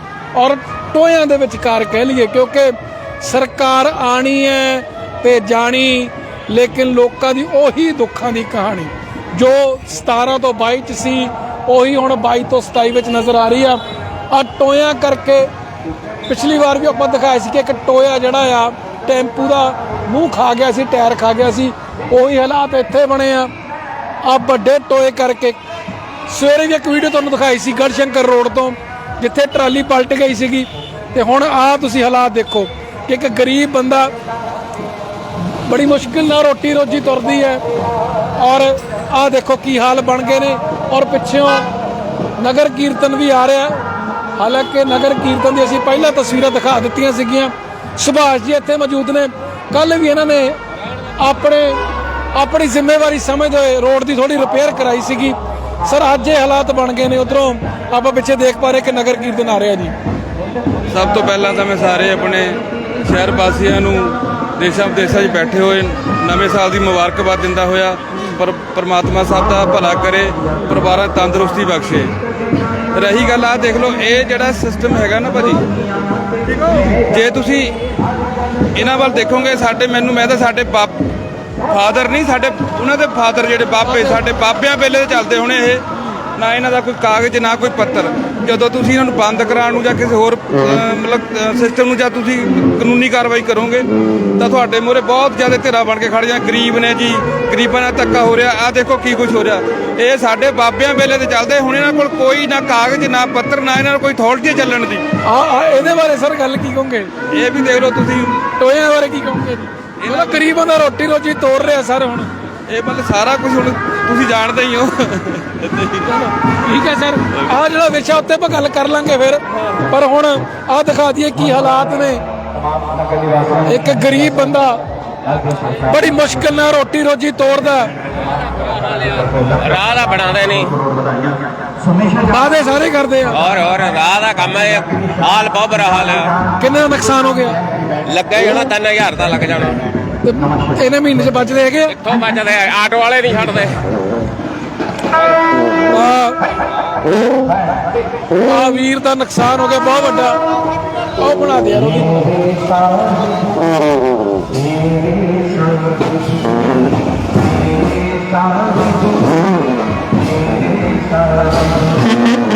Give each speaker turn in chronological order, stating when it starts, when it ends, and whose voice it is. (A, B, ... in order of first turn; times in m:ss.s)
0:00.3-0:13.8 A
0:14.3-0:15.5 A
0:16.3-0:23.5 A
0:24.2-0:25.6 A
0:26.3-0:34.1 A
0:35.7-0:37.6 A
0:38.4-0:41.7 A
0:42.4-0:43.8 A
0:44.4-0:50.6 A
0:51.2-0:51.8 A
0:52.3-0:59.9 A
1:00.9-1:12.1 B
1:12.9-1:15.7 B
1:16.8-1:17.7 B
1:18.8-1:21.0 B
1:21.7-1:25.8 B
1:23.8-1:24.2 A
1:26.4-1:45.0 B
1:45.2-1:47.1 A
1:47.3-1:48.5 B
1:48.6-1:52.3 A
1:50.0-1:50.5 B
1:52.7-1:56.1 B
1:56.1-2:02.2 A
2:03.6-2:04.8 A
2:05.8-2:07.9 A
2:08.8-2:10.8 C
2:12.2-2:13.4 A
2:13.3-2:16.3 C
2:16.6-2:17.6 A
2:18.0-2:19.9 C
2:20.2-2:22.0 A
2:21.9-2:23.8 C
2:25.9-2:26.4 A
2:28.4-2:30.4 A
2:31.2-2:32.4 A